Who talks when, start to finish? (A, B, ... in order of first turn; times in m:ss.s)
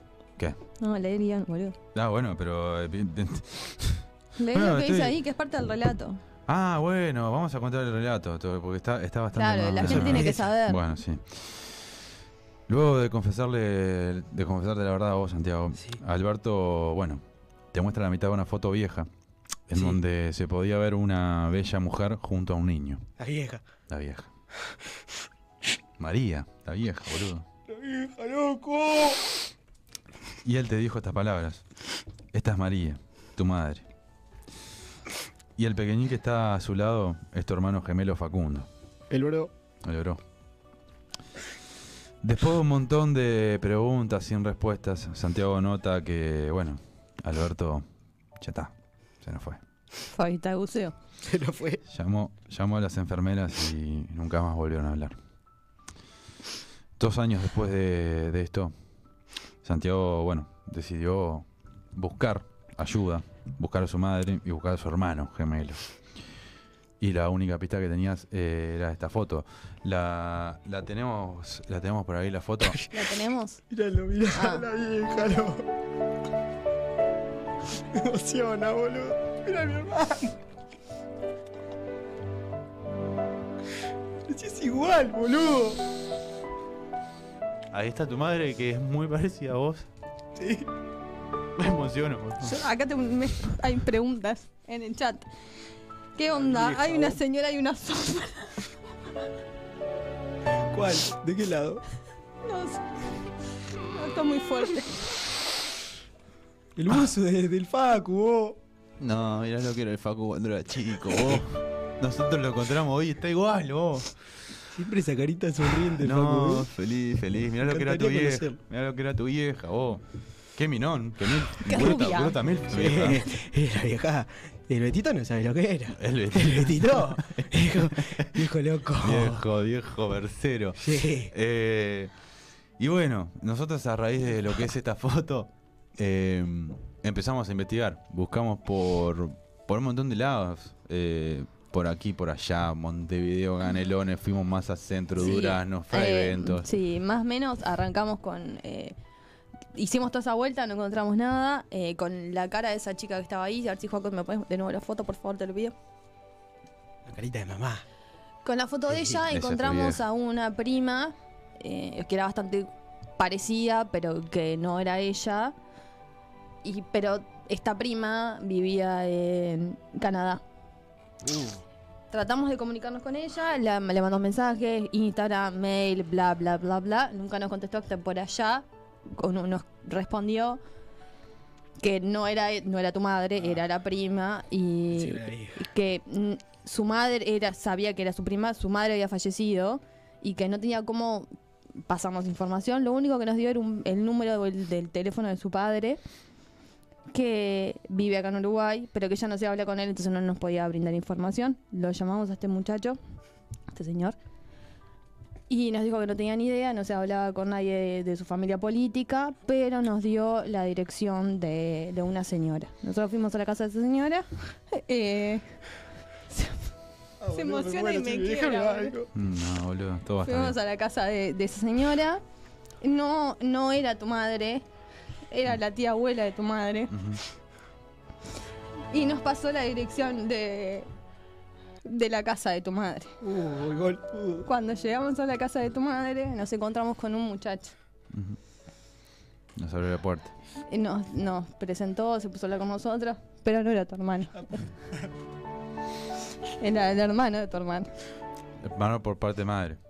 0:00.8-0:01.8 A
0:01.9-0:05.2 B
0:04.4-0:06.2 A
0:06.5-0:11.8 B
0:09.3-0:10.8 A
0:09.8-0:10.4 C
0:12.7-0:19.1 B
0:19.7-0:23.0 B
0:23.2-0:23.6 C
0:23.9-0:24.3 B
0:26.0-0:27.5 B
0:27.7-0:29.3 C
0:30.4-0:31.6 B
0:32.3-0:33.8 B
0:35.6-0:38.7 B
0:39.1-0:39.5 C
0:39.8-0:40.2 B
0:42.2-0:47.8 B
0:48.4-0:49.6 B
0:50.1-0:50.9 A
0:51.2-0:51.8 C
0:51.9-0:55.2 B
0:57.0-0:58.7 B
0:59.6-1:05.8 B
1:07.0-1:12.8 B
1:12.9-1:13.6 A
1:13.7-1:15.6 C
1:14.3-1:14.6 A
1:17.9-1:20.4 C
1:24.3-1:25.8 C
1:27.7-1:29.9 B
1:30.4-1:30.7 C
1:31.6-1:32.6 B
1:32.4-1:35.3 A
1:36.2-1:38.6 A
1:36.3-1:37.2 C
1:40.7-1:41.8 C
1:42.4-1:42.8 A
1:43.9-1:45.0 A
1:46.8-1:48.6 C
1:49.0-1:54.1 B
1:54.7-1:56.7 C
1:56.0-2:00.0 B
1:57.6-1:58.6 C
2:00.6-2:03.2 B
2:01.6-2:02.4 A
2:02.6-2:09.4 C
2:05.9-2:08.2 B
2:09.0-2:12.1 B
2:10.8-2:11.3 C
2:12.8-2:26.7 B
2:25.2-2:28.9 A
2:29.7-2:35.7 A
2:37.0-2:37.8 C
2:38.4-2:45.5 A
2:38.9-2:39.1 C
2:39.3-2:40.0 B
2:46.6-2:50.4 A
2:51.2-2:51.6 C
2:52.1-3:00.6 A
3:01.8-3:11.3 A
3:04.9-3:05.6 C
3:11.9-3:16.0 A
3:17.1-3:23.0 A
3:23.7-3:24.2 A
3:25.5-3:35.4 A
3:37.2-3:39.1 C
3:37.3-3:39.0 A
3:39.1-3:40.6 B
3:40.2-3:42.2 A
3:42.8-3:44.6 A
3:45.3-3:47.0 A
3:46.9-3:47.2 B
3:48.9-3:50.9 A
3:51.8-3:53.1 A
3:53.2-3:54.4 C
3:54.4-3:57.7 A
3:58.1-3:58.4 B
3:59.6-4:00.3 B
4:00.7-4:04.5 A
4:06.6-4:07.9 A
4:08.6-4:09.8 B